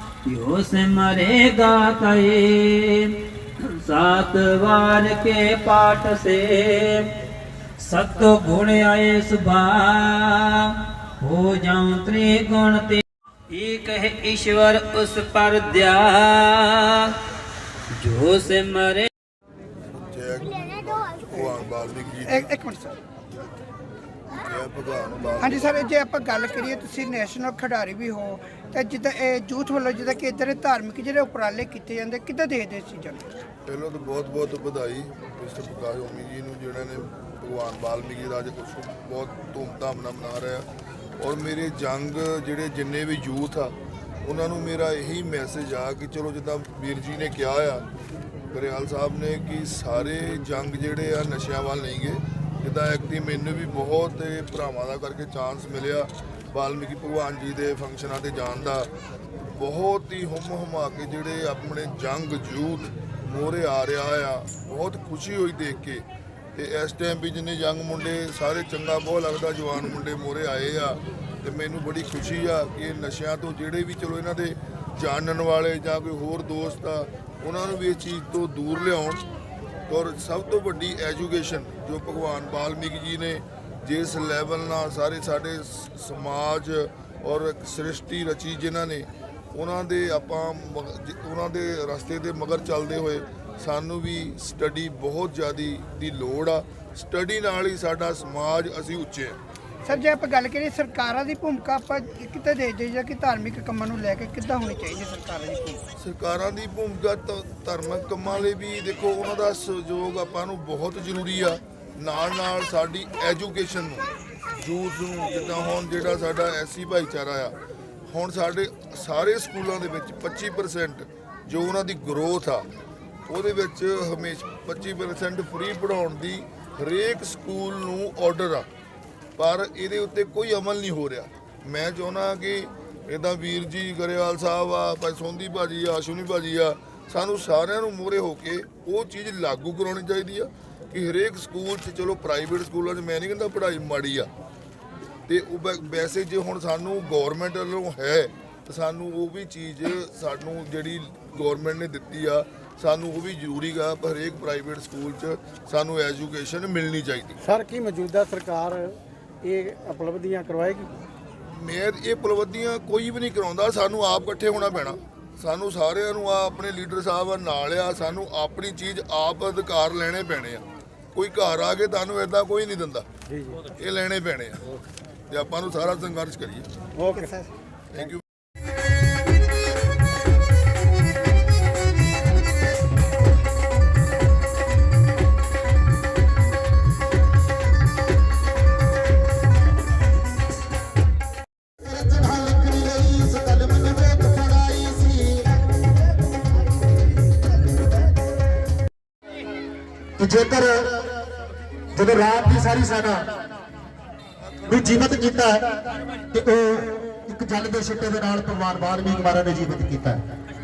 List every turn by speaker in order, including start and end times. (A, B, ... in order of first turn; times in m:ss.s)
0:00.3-0:03.2 A
0:03.8-0:07.1 A
0:07.8-0:17.1 A
0:18.0-0:19.1 A
0:20.1-0:22.5 B
0:22.3-0:23.0 C
0:24.4-0:25.8 B
0:25.4-0:33.4 C
0:33.7-0:40.7 B
0:41.2-0:47.8 B
0:48.5-0:58.9 B
0:59.6-1:19.2 B
1:19.9-1:39.4 B
1:39.9-1:45.8 C
1:46.0-1:54.1 B
1:54.6-1:57.6 B
1:58.1-2:02.7 B
2:03.3-2:08.7 B
2:09.4-2:24.3 B
2:25.3-2:37.4 B
2:37.4-2:40.9 D
2:41.5-2:53.1 B
2:53.8-2:54.6 B
2:55.3-2:56.7 B
2:57.0-2:58.2 D
2:57.9-2:58.2 B
3:11.8-3:15.4 E
3:20.2-3:20.9 E
3:22.0-3:23.3 E
3:24.7-3:25.7 E
3:26.3-3:30.2 E